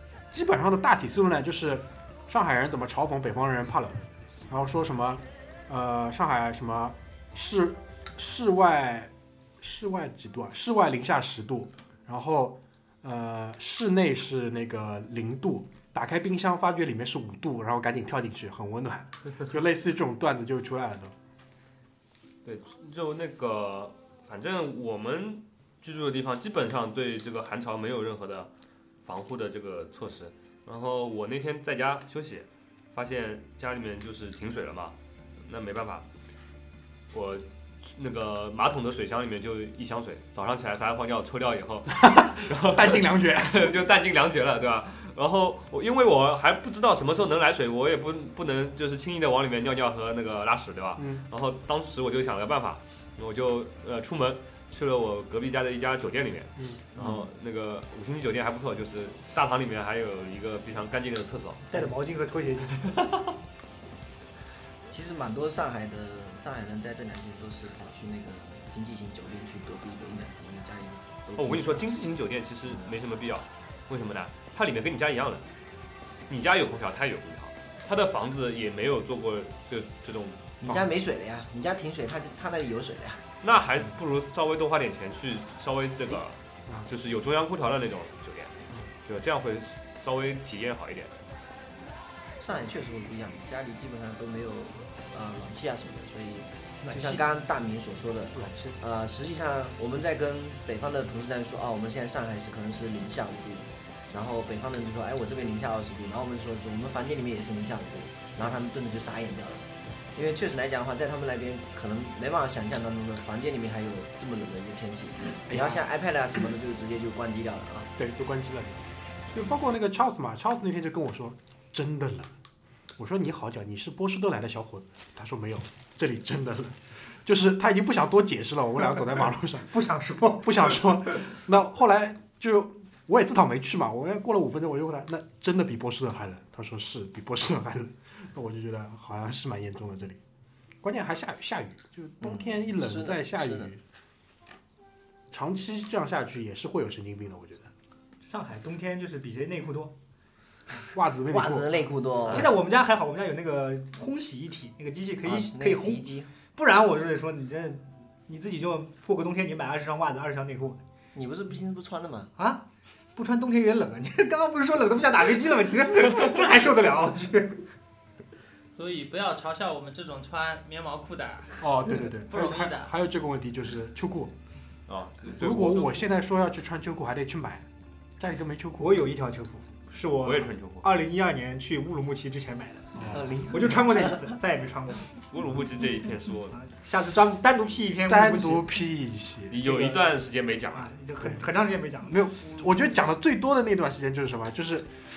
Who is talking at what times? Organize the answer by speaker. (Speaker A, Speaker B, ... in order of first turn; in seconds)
Speaker A: 0.3-21.1, 41.9-43.7, 51.0-51.2, 56.6-57.0, 98.3-98.8, 115.5-115.9, 118.0-122.3, 123.0-129.8, 130.4-140.2, 140.8-143.8, 145.3-147.7, 150.9-152.4, 171.6-174.3, 175.3-177.7, 178.2-179.1, 183.0-183.4, 188.1-189.6, 192.1-194.9
Speaker B: 22.4-28.5, 29.0-36.1, 37.1-61.7, 71.4-75.4, 76.3-80.5, 83.4-91.1, 174.9-176.1, 180.2-180.9, 185.3-186.6, 189.5-191.0
Speaker C: 61.7-63.0, 96.8-97.2, 129.7-130.9, 148.2-149.9, 152.3-160.8, 162.4-167.6, 178.8-183.0, 183.5-185.2, 186.6-188.7, 189.6-190.1, 190.7-192.3
Speaker D: 64.9-71.9, 72.7-72.9, 80.6-83.2, 92.4-117.9, 142.7-143.7, 151.3-152.5, 155.2-156.3, 161.1-162.3, 183.1-184.3
Speaker E: 168.7-171.6, 172.3-172.9